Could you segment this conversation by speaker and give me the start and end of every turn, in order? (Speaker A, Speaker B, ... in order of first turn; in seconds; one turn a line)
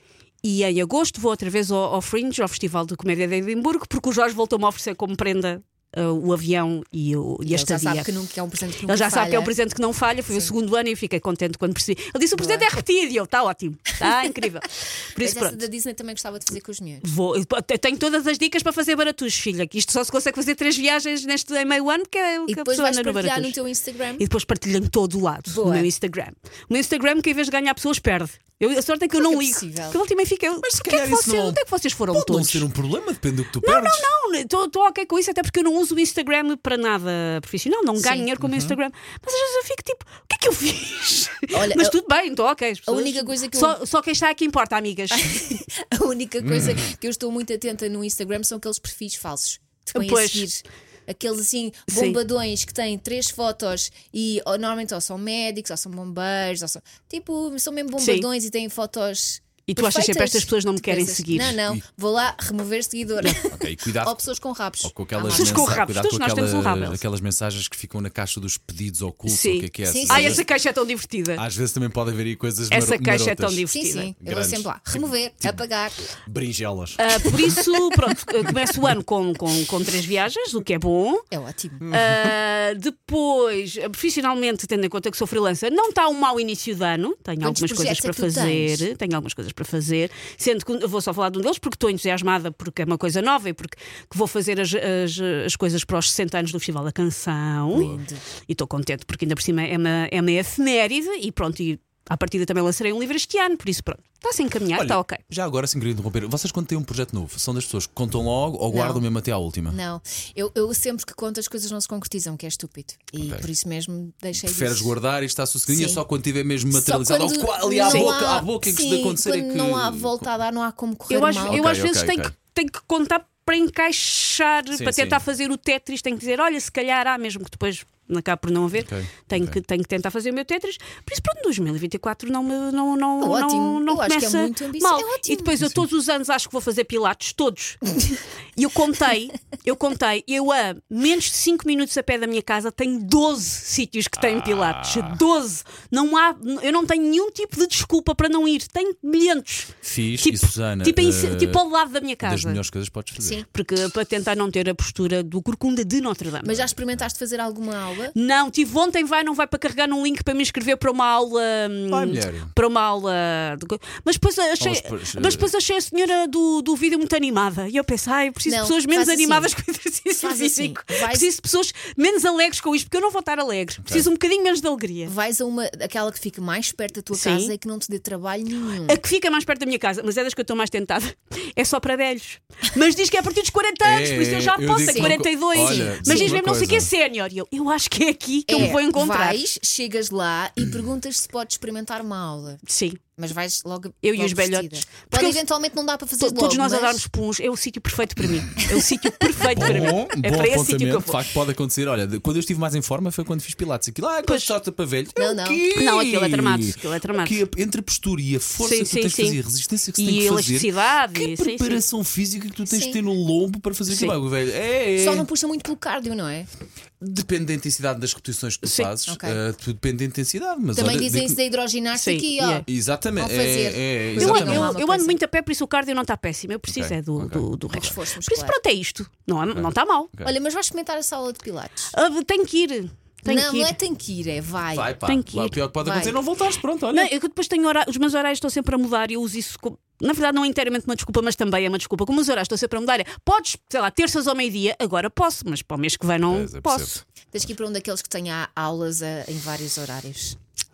Speaker A: 0.4-8.2
Speaker B: 7.5-9.5
Speaker A: 8.8-15.6
Speaker B: 12.4-12.7
Speaker B: 15.2-17.0
Speaker A: 17.0-23.6
Speaker B: 22.5-24.2
Speaker A: 24.2-32.6
Speaker B: 25.5-25.9
Speaker B: 29.2-30.0
Speaker C: 30.6-31.6
Speaker C: 32.1-34.1
Speaker A: 33.6-45.4
Speaker B: 38.0-38.3
Speaker C: 38.4-38.8
Speaker B: 41.5-42.0
Speaker B: 42.9-43.8
Speaker B: 45.1-65.8
Speaker C: 46.4-46.9
Speaker A: 50.0-50.5
Speaker A: 51.9-52.2
Speaker A: 58.0-58.3
Speaker A: 59.7-61.6
Speaker C: 61.5-61.8
Speaker C: 63.5-64.2
Speaker C: 64.8-70.5
Speaker A: 65.3-67.0
Speaker A: 69.3-71.4
Speaker B: 69.8-70.4
Speaker C: 71.4-73.7
Speaker A: 72.7-74.1
Speaker B: 73.7-76.1
Speaker C: 74.2-74.8
Speaker C: 76.1-77.5
Speaker A: 77.0-81.3
Speaker B: 81.3-81.9
Speaker C: 81.9-82.2
Speaker A: 81.9-105.2
Speaker B: 87.4-88.9
Speaker C: 97.7-98.0
Speaker B: 97.7-98.3
Speaker C: 104.8-109.8
Speaker B: 108.7-109.0
Speaker B: 109.7-115.0
Speaker C: 113.2-113.5
Speaker C: 114.4-120.3
Speaker B: 115.7-116.0
Speaker B: 116.7-121.7
Speaker A: 117.8-118.3
Speaker A: 121.1-152.6
Speaker C: 121.5-122.3
Speaker C: 124.7-125.2
Speaker C: 128.8-129.6
Speaker B: 133.2-135.7
Speaker C: 144.2-145.2
Speaker C: 149.8-151.6
Speaker C: 152.2-153.4
Speaker B: 153.2-153.4
Speaker A: 153.4-156.6
Speaker B: 156.4-158.1
Speaker A: 158.1-175.1
Speaker C: 161.9-162.5
Speaker C: 164.6-165.5
Speaker B: 168.5-169.5
Speaker B: 170.2-171.3
Speaker C: 173.8-174.1
Speaker B: 175.1-179.0
Speaker A: 177.1-177.5
Speaker A: 178.8-189.4
Speaker C: 183.8-186.9
Speaker B: 184.8-186.4
Speaker B: 188.5-192.6
Speaker A: 192.7-193.0
Speaker B: 193.2-197.0
Speaker A: 194.0-195.4
Speaker A: 196.2-201.2
Speaker C: 199.5-215.3
Speaker B: 205.2-205.6
Speaker A: 205.7-207.4
Speaker A: 208.6-209.4
Speaker A: 210.0-211.8
Speaker B: 212.7-213.0
Speaker A: 213.9-214.2
Speaker B: 215.0-216.5
Speaker C: 217.0-221.4
Speaker A: 218.6-218.9
Speaker B: 219.1-219.4
Speaker B: 220.8-225.2
Speaker A: 222.0-222.7
Speaker C: 222.7-224.7
Speaker A: 224.2-230.1
Speaker C: 226.7-227.9
Speaker B: 227.7-228.6
Speaker C: 229.5-230.3
Speaker B: 230.2-231.9
Speaker A: 231.9-233.8
Speaker B: 233.2-235.0
Speaker C: 234.7-237.1
Speaker A: 235.1-235.6
Speaker B: 235.8-236.2
Speaker A: 236.9-247.0
Speaker C: 246.3-246.9
Speaker B: 247.3-250.4